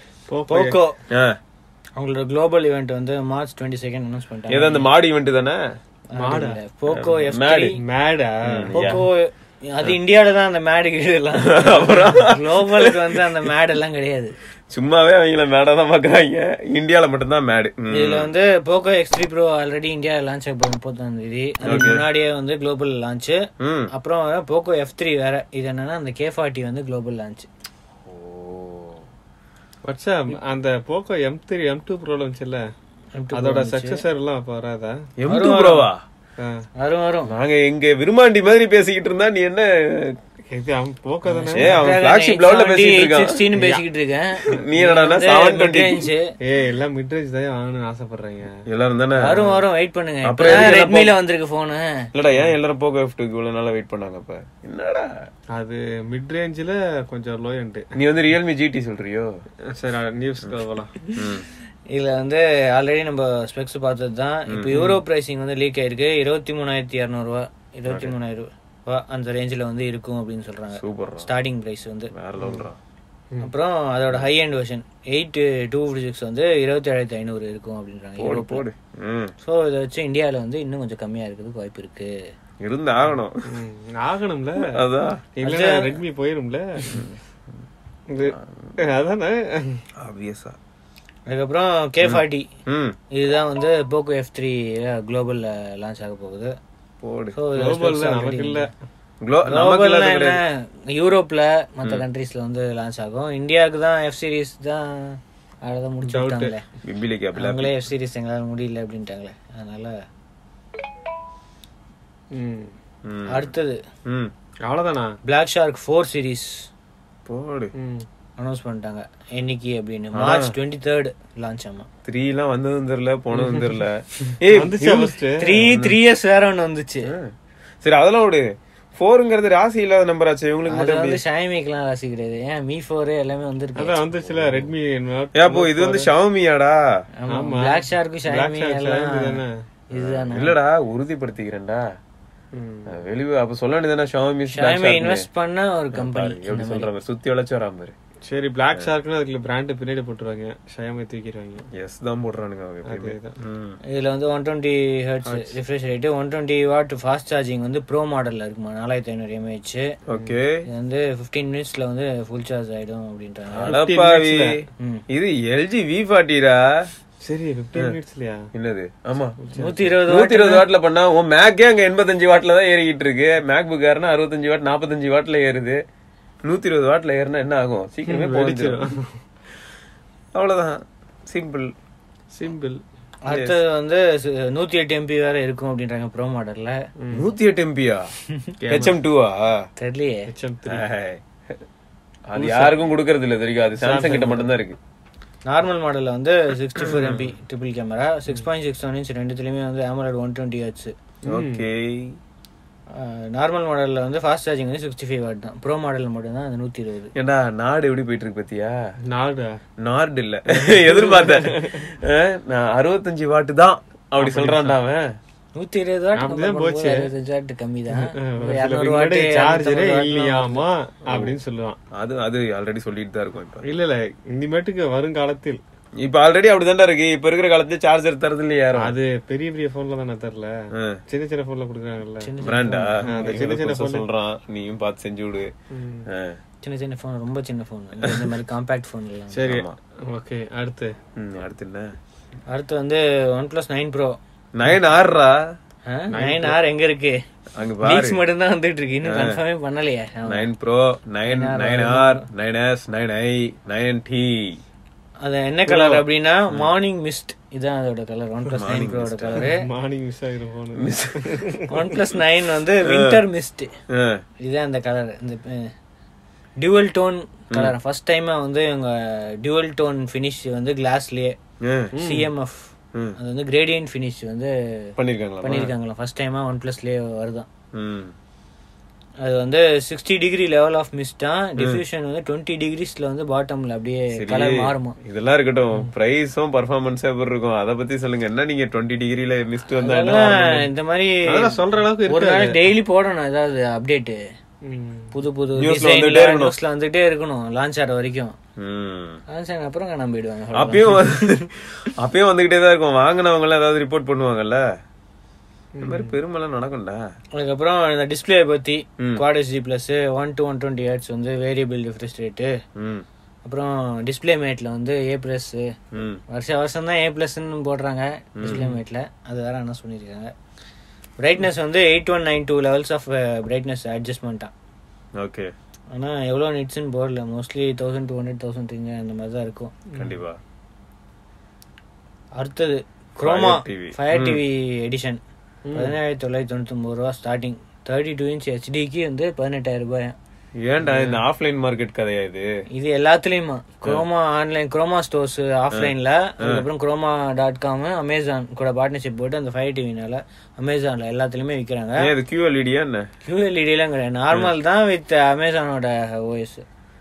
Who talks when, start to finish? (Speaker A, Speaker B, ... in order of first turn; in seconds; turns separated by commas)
Speaker A: 0.3-0.8, Speaker B: 0.5-1.0, Speaker C: 1.1-1.4, Speaker B: 2.0-4.9, Speaker C: 4.5-5.6, Speaker B: 6.1-7.8, Speaker A: 6.2-6.6, Speaker C: 6.9-7.8, Speaker A: 7.8-9.1, Speaker C: 8.5-9.0, Speaker B: 8.7-14.3, Speaker C: 11.4-13.0, Speaker C: 14.7-18.3, Speaker B: 17.9-27.5, Speaker C: 21.6-22.1, Speaker C: 23.6-23.9, Speaker C: 28.1-29.1, Speaker A: 29.9-32.6, Speaker B: 33.2-34.0, Speaker A: 33.3-35.0, Speaker C: 35.2-36.0, Speaker B: 35.3-35.9, Speaker B: 36.8-37.3, Speaker C: 37.3-40.2, Speaker A: 40.5-41.8, Speaker B: 41.3-44.4, Speaker C: 41.5-43.4, Speaker A: 43.5-43.8, Speaker C: 44.5-46.1, Speaker A: 44.6-45.1, Speaker B: 44.9-46.2, Speaker A: 46.4-48.5, Speaker C: 48.7-49.5, Speaker B: 49.2-51.9, Speaker C: 50.2-51.2, Speaker C: 52.1-55.1, Speaker A: 52.3-52.6, Speaker A: 55.5-57.8, Speaker C: 58.0-59.3, Speaker A: 59.7-60.9, Speaker C: 61.2-61.5, Speaker B: 61.9-72.1, Speaker C: 64.5-64.8, Speaker A: 64.7-65.0, Speaker C: 67.9-68.1, Speaker C: 70.8-71.3, Speaker C: 72.1-72.8, Speaker A: 72.4-72.7, Speaker B: 73.4-78.6, Speaker C: 78.2-79.3, Speaker B: 79.4-82.1, Speaker C: 82.6-83.4, Speaker A: 83.5-84.8, Speaker C: 84.6-85.2, Speaker A: 85.4-86.9, Speaker B: 85.4-85.9, Speaker C: 86.9-87.2, Speaker A: 88.1-89.8, Speaker C: 88.3-88.8, Speaker C: 90.0-90.6, Speaker B: 91.3-92.5, Speaker C: 92.0-93.0, Speaker B: 93.1-96.5, Speaker C: 97.0-97.4, Speaker B: 97.3-98.7, Speaker A: 97.6-98.7, Speaker C: 99.2-100.4, Speaker B: 99.5-106.7, Speaker A: 106.1-106.5, Speaker C: 106.8-107.7, Speaker B: 107.4-110.0, Speaker A: 112.3-112.7, Speaker C: 113.0-113.5, Speaker B: 113.3-113.8, Speaker C: 114.1-114.3, Speaker A: 114.7-115.2, Speaker B: 115.2-116.5, Speaker C: 117.3-117.7, Speaker A: 117.8-118.0, Speaker B: 118.4-121.9, Speaker C: 120.2-120.5, Speaker C: 122.1-125.1, Speaker A: 123.3-123.7, Speaker A: 124.5-125.7, Speaker B: 125.4-127.1, Speaker C: 125.7-126.0, Speaker C: 127.8-128.4, Speaker C: 129.0-131.2, Speaker B: 130.7-134.0, Speaker A: 133.8-136.1, Speaker C: 134.2-134.7, Speaker C: 135.3-136.8, Speaker B: 137.2-139.4, Speaker A: 137.3-139.5, Speaker B: 139.9-140.6, Speaker C: 139.9-141.8, Speaker A: 142.5-142.9, Speaker C: 142.9-145.3, Speaker B: 144.5-146.9, Speaker C: 145.9-147.9, Speaker A: 148.3-151.6, Speaker C: 151.8-153.8, Speaker A: 152.9-153.3, Speaker B: 153.9-159.9, Speaker A: 155.2-155.6, Speaker C: 160.1-160.6, Speaker B: 160.7-163.8, Speaker C: 163.5-164.5, Speaker A: 163.7-164.5, Speaker C: 165.1-166.6, Speaker A: 167.2-168.4, Speaker C: 168.5-169.4, Speaker A: 169.4-169.9, Speaker B: 169.6-170.7, Speaker C: 170.1-175.8, Speaker C: 176.4-178.8, Speaker A: 178.1-179.1, Speaker C: 180.3-181.7, Speaker A: 182.3-182.8, Speaker B: 183.2-186.8, Speaker C: 183.3-183.6, Speaker A: 187.0-187.3, Speaker C: 187.1-188.1, Speaker A: 188.6-189.0, Speaker C: 188.7-189.6, Speaker B: 189.8-190.2, Speaker A: 190.3-190.8, Speaker C: 190.7-191.2, Speaker C: 192.3-194.8, Speaker A: 192.3-192.8, Speaker A: 193.8-194.5, Speaker B: 195.5-200.9, Speaker C: 196.8-197.3, Speaker A: 201.3-201.7, Speaker C: 201.3-202.2, Speaker B: 202.9-207.1, Speaker C: 207.2-208.8, Speaker A: 209.1-209.6, Speaker C: 209.8-215.1, Speaker A: 210.6-211.8, Speaker A: 214.2-214.8, Speaker B: 215.6-220.7, Speaker A: 216.2-217.1, Speaker A: 217.9-221.8, Speaker C: 221.9-223.7, Speaker A: 223.6-225.6, Speaker C: 226.0-228.9, Speaker A: 228.8-230.5, Speaker A: 231.1-232.3, Speaker B: 232.2-233.4, Speaker C: 232.4-235.5, Speaker A: 233.1-234.1, Speaker A: 235.7-236.1, Speaker C: 236.1-236.4, Speaker B: 236.6-239.5, Speaker C: 238.0-238.3, Speaker A: 239.3-240.9, Speaker C: 239.4-239.7, Speaker C: 241.2-241.9, Speaker B: 242.5-244.2, Speaker C: 244.6-245.4, Speaker B: 245.9-247.2, Speaker A: 246.1-246.6, Speaker C: 247.6-248.2, Speaker B: 247.8-250.5, Speaker C: 249.1-249.4, Speaker C: 250.3-254.6, Speaker B: 251.3-252.2, Speaker B: 255.2-259.6, Speaker A: 255.7-256.1, Speaker C: 258.6-259.4, Speaker A: 259.4-261.9, Speaker C: 260.8-261.5, Speaker B: 261.7-263.7, Speaker C: 262.9-263.2, Speaker C: 263.9-264.2, Speaker B: 264.4-265.7, Speaker B: 266.6-271.4, Speaker C: 271.6-271.9, Speaker A: 271.9-272.3, Speaker B: 272.0-274.9, Speaker C: 275.0-275.7, Speaker B: 275.4-277.5, Speaker C: 277.7-278.1, Speaker B: 279.2-285.0, Speaker C: 284.1-290.6, Speaker B: 289.7-294.2, Speaker A: 291.3-292.6, Speaker A: 294.7-295.1, Speaker B: 295.1-298.4, Speaker C: 295.6-296.5, Speaker C: 298.6-299.2, Speaker B: 299.3-301.4, Speaker C: 300.6-304.6, Speaker A: 305.8-306.2, Speaker C: 305.8-307.0, Speaker B: 307.4-312.5, Speaker C: 312.8-313.1, Speaker B: 313.4-315.6, Speaker C: 315.9-316.2, Speaker B: 316.3-320.3, Speaker C: 318.4-318.6, Speaker A: 318.4-318.8, Speaker B: 321.2-324.5, Speaker C: 325.2-325.5, Speaker B: 325.9-329.8, Speaker C: 330.0-330.4, Speaker B: 332.4-335.2, Speaker C: 333.2-334.4, Speaker A: 335.7-336.0, Speaker B: 335.7-340.1, Speaker C: 340.6-342.5, Speaker A: 340.8-341.2, Speaker B: 342.7-352.0, Speaker C: 352.0-353.1, Speaker B: 353.2-356.6